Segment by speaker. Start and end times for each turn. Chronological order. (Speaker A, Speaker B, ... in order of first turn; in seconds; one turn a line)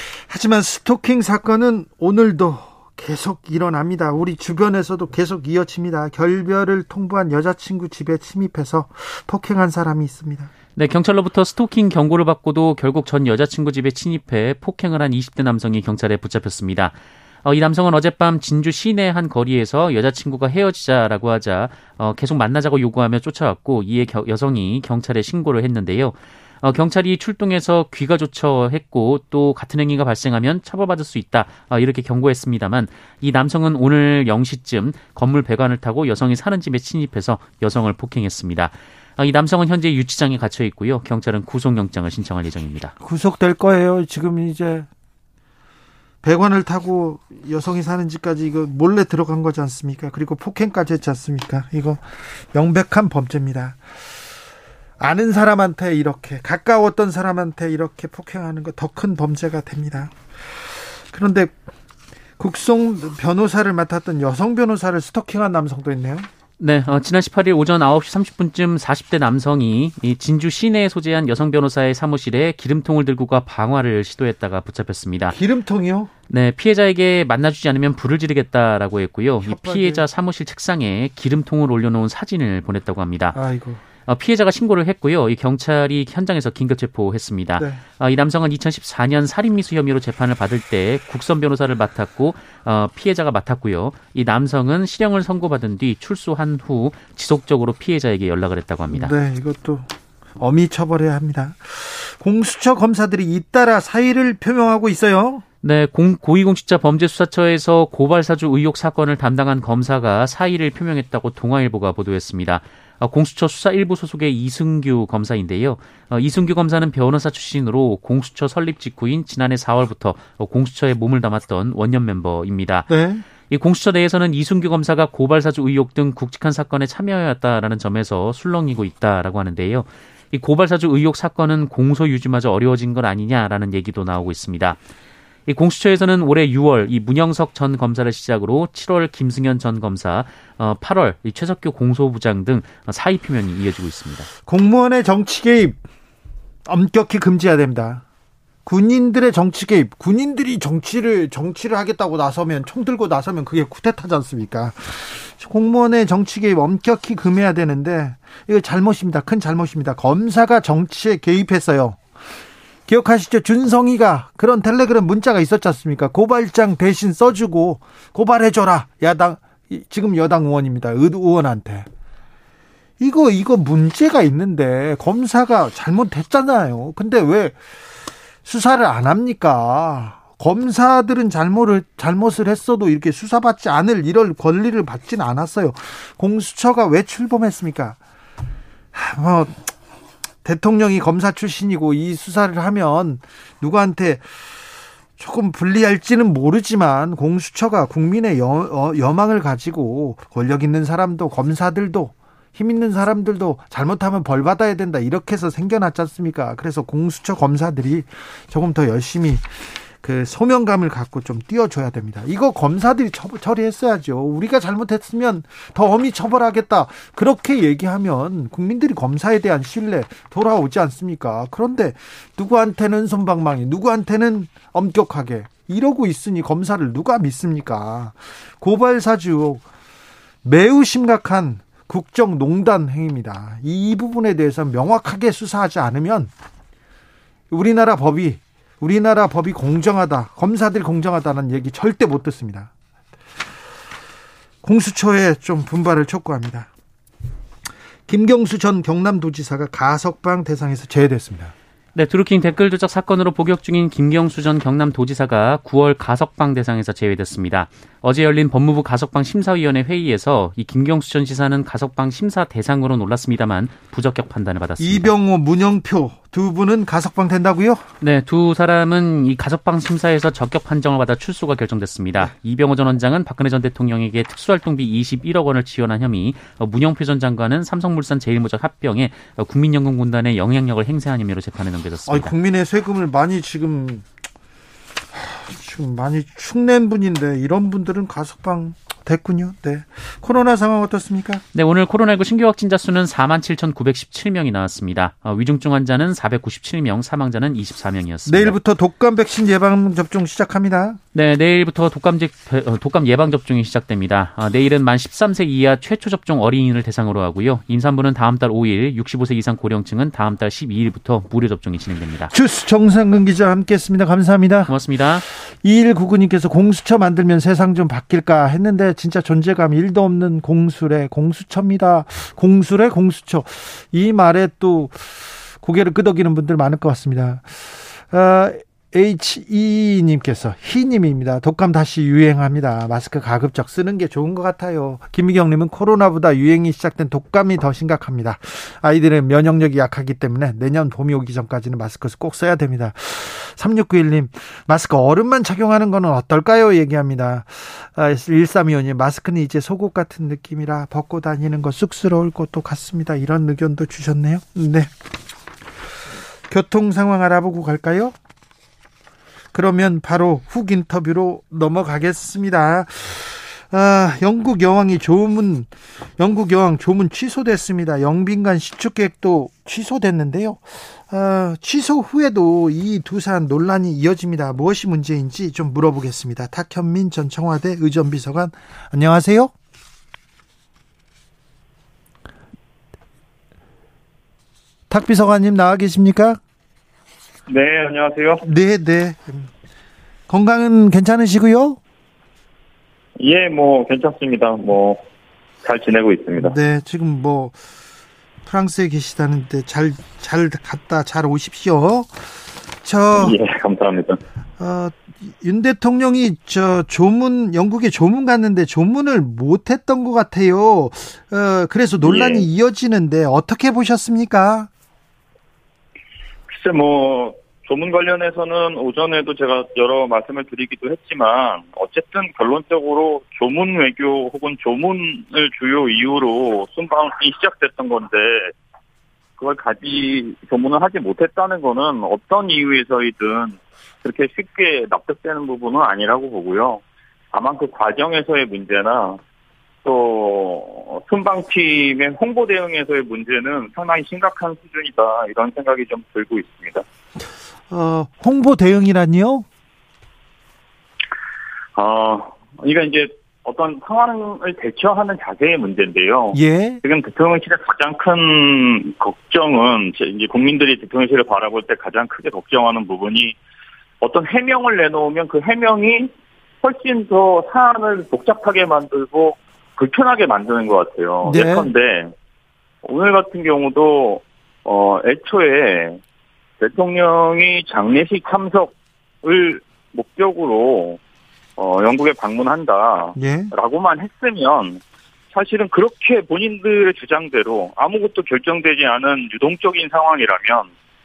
Speaker A: 0.3-10.5
Speaker B: 10.8-42.9
Speaker A: 43.0-44.9
Speaker A: 46.2-53.8
Speaker A: 55.0-61.6
Speaker A: 62.4-66.3
Speaker B: 66.6-75.4
Speaker A: 75.3-76.1
Speaker B: 76.3-83.4
Speaker A: 79.4-80.0
Speaker A: 83.3-83.8
Speaker B: 84.1-99.1
Speaker A: 87.6-87.8
Speaker A: 98.9-99.9
Speaker A: 100.4-105.4
Speaker B: 105.6-122.9
Speaker A: 122.9-123.2
Speaker B: 123.5-134.8
Speaker B: 135.5-144.3
Speaker A: 144.5-145.8
Speaker A: 146.7-148.0
Speaker A: 148.7-162.0
Speaker A: 162.9-171.9
Speaker A: 173.0-177.6
Speaker A: 178.4-188.0
Speaker A: 188.9-189.7
Speaker A: 190.4-194.6
Speaker A: 195.2-229.6
Speaker A: 230.4-236.3
Speaker A: 237.5-242.7
Speaker A: 244.6-246.7
Speaker A: 248.1-251.5
Speaker B: 251.9-265.1
Speaker A: 264.8-267.8
Speaker B: 268.0-282.3
Speaker A: 282.1-284.0
Speaker A: 285.1-291.4
Speaker B: 291.5-298.6
Speaker A: 298.2-301.0
Speaker B: 301.1-312.3
Speaker A: 312.3-314.7
Speaker B: 314.6-315.2
Speaker A: 315.4-354.9
Speaker A: 356.5-358.1
Speaker A: 359.5-379.5
Speaker A: 384.9-386.4
Speaker C: 387.5-388.4
Speaker A: 388.4-389.5
Speaker A: 390.3-391.8
Speaker C: 393.2-395.0
Speaker C: 395.6-396.5
Speaker A: 396.4-397.6
Speaker A: 398.4-402.3
Speaker A: 402.8-403.3
Speaker C: 403.1-404.2
Speaker A: 404.6-414.7
Speaker C: 412.0-412.5
Speaker C: 416.5-428.5
Speaker C: 429.4-436.8
Speaker C: 437.3-439.2
Speaker C: 439.8-446.8
Speaker A: 447.7-449.4
Speaker C: 451.8-463.4
Speaker A: 456.3-456.8
Speaker C: 464.0-466.1
Speaker C: 466.6-472.1
Speaker A: 471.2-471.7
Speaker C: 472.8-476.0
Speaker C: 476.6-481.0
Speaker C: 481.6-484.8
Speaker A: 483.1-483.5
Speaker C: 485.3-490.7